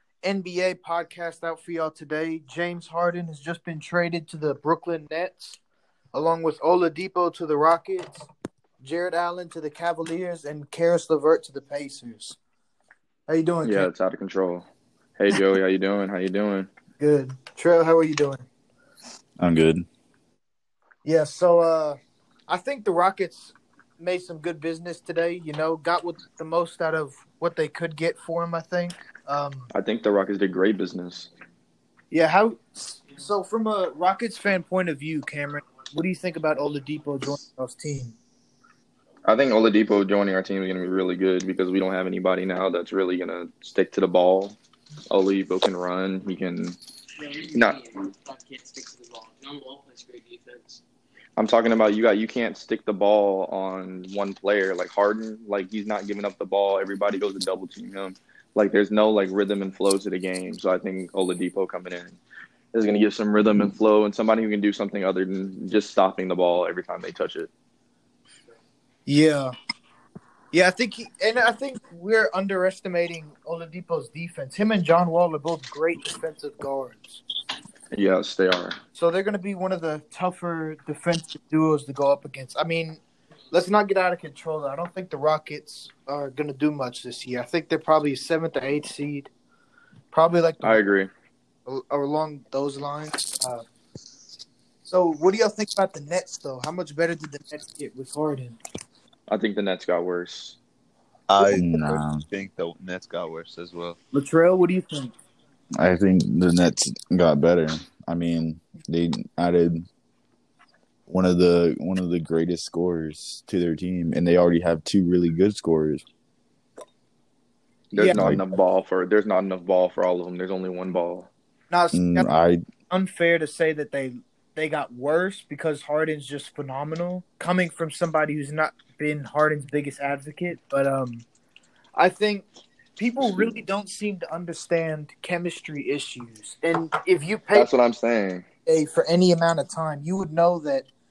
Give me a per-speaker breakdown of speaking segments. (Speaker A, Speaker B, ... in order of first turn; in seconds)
Speaker A: 0.2-5.6, 6.1-8.3, 8.8-12.4, 13.3-13.9, 17.0-18.5, 21.0-29.7, 32.1-38.2, 69.1-69.5, 70.5-77.2, 79.0-83.0, 83.5-89.3, 90.1-90.8, 91.7-93.6, 94.9-98.6, 104.1-105.1, 117.9-118.3, 121.7-131.3, 131.9-132.4, 133.0-137.7, 138.7-140.9
Speaker B: 13.6-14.7, 15.2-16.7, 29.7-31.3, 39.2-44.6, 45.1-46.8, 47.5-47.8, 51.4-62.2, 62.7-67.5, 77.9-78.8, 90.6-91.1, 99.3-100.6, 117.9-121.3, 133.2-133.6, 137.5-138.5
Speaker C: 19.4-19.9, 101.5-102.2, 105.8-109.9, 111.1-116.0, 118.2-118.4, 121.9-122.7
Speaker D: 47.2-50.8
Speaker E: 101.3-104.0